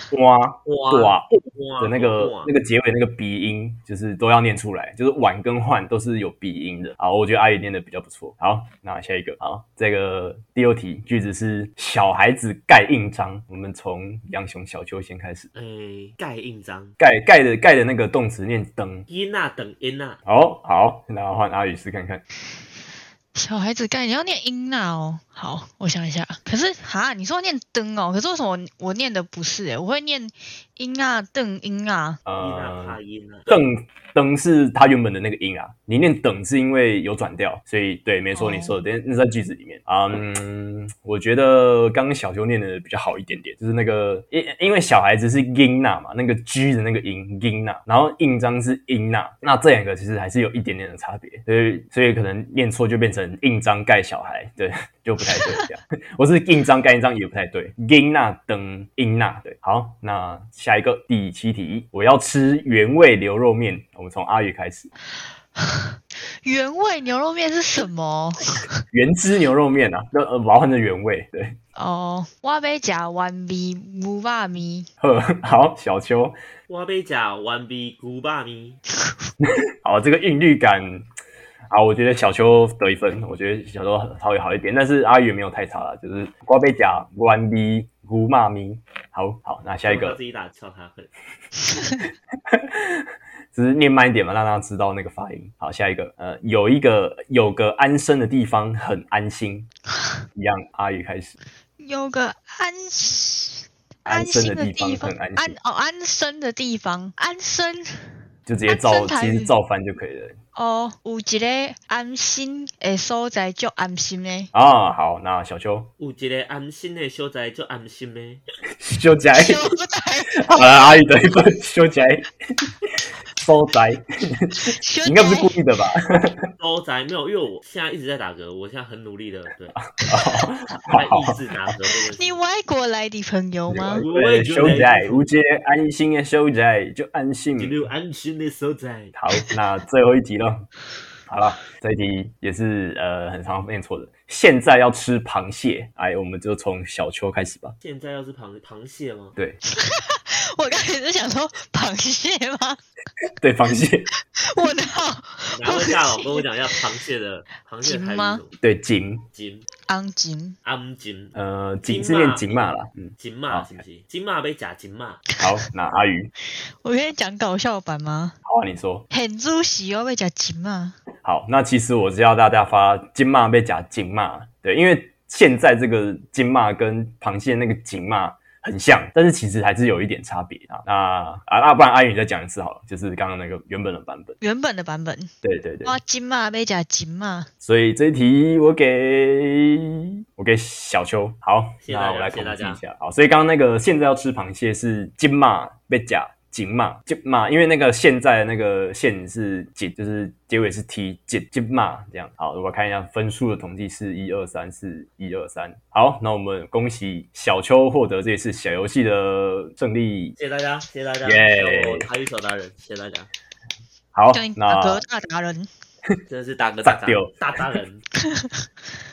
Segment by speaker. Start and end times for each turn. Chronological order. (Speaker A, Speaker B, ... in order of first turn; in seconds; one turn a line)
Speaker A: 0.1-15.5
Speaker B: 0.7-2.5
Speaker B: 15.5-16.9
Speaker A: 17.0-19.1
Speaker B: 19.1-20.2
Speaker A: 20.2-22.2
Speaker C: 23.3-32.2
Speaker A: 32.2-64.9
Speaker B: 32.4-33.6
Speaker C: 38.3-38.7
Speaker C: 65.6-68.7
Speaker A: 68.9-71.5
Speaker C: 71.8-74.9
Speaker A: 75.0-76.4
Speaker B: 76.7-78.8
Speaker A: 79.4-81.0
Speaker A: 81.7-90.2
Speaker B: 89.8-91.1
Speaker A: 92.5-99.7
Speaker A: 100.3-101.3
Speaker C: 101.8-108.1
Speaker A: 104.0-105.5
Speaker A: 108.5-110.4
Speaker C: 108.7-109.5
Speaker C: 110.5-114.5
Speaker A: 114.5-115.9
Speaker B: 116.0-118.4
Speaker A: 118.8-119.7
Speaker C: 119.3-120.7
Speaker A: 120.3-122.7
Speaker A: 123.3-126.5
Speaker C: 124.5-125.6
Speaker B: 126.6-129.8
Speaker A: 130.1-131.7
Speaker B: 130.9-132.4
Speaker C: 132.1-134.0
Speaker A: 133.7-137.8
Speaker B: 134.0-135.3
Speaker B: 137.6-139.1
Speaker A: 139.1-140.7
Speaker A: 141.3-147.7
Speaker B: 147.8-149.3
Speaker C: 149.7-152.8
Speaker A: 153.4-154.1
Speaker C: 154.3-156.4
Speaker B: 155.5-158.5
Speaker C: 157.8-158.4
Speaker A: 158.6-159.2
Speaker B: 159.3-159.6
Speaker C: 159.9-160.6
Speaker B: 160.6-165.2
Speaker A: 161.3-163.8
Speaker C: 165.4-165.7
Speaker A: 165.4-166.3
Speaker C: 166.8-168.3
Speaker A: 168.4-169.1
Speaker C: 169.1-170.9
Speaker A: 171.2-184.4
Speaker C: 184.4-185.3
Speaker A: 185.4-186.0
Speaker C: 185.8-187.5
Speaker A: 187.6-210.4
Speaker B: 191.8-192.8
Speaker B: 210.4-213.3
Speaker A: 211.2-212.1
Speaker A: 214.1-215.0
Speaker C: 214.3-215.7
Speaker B: 216.3-218.0
Speaker A: 216.8-217.4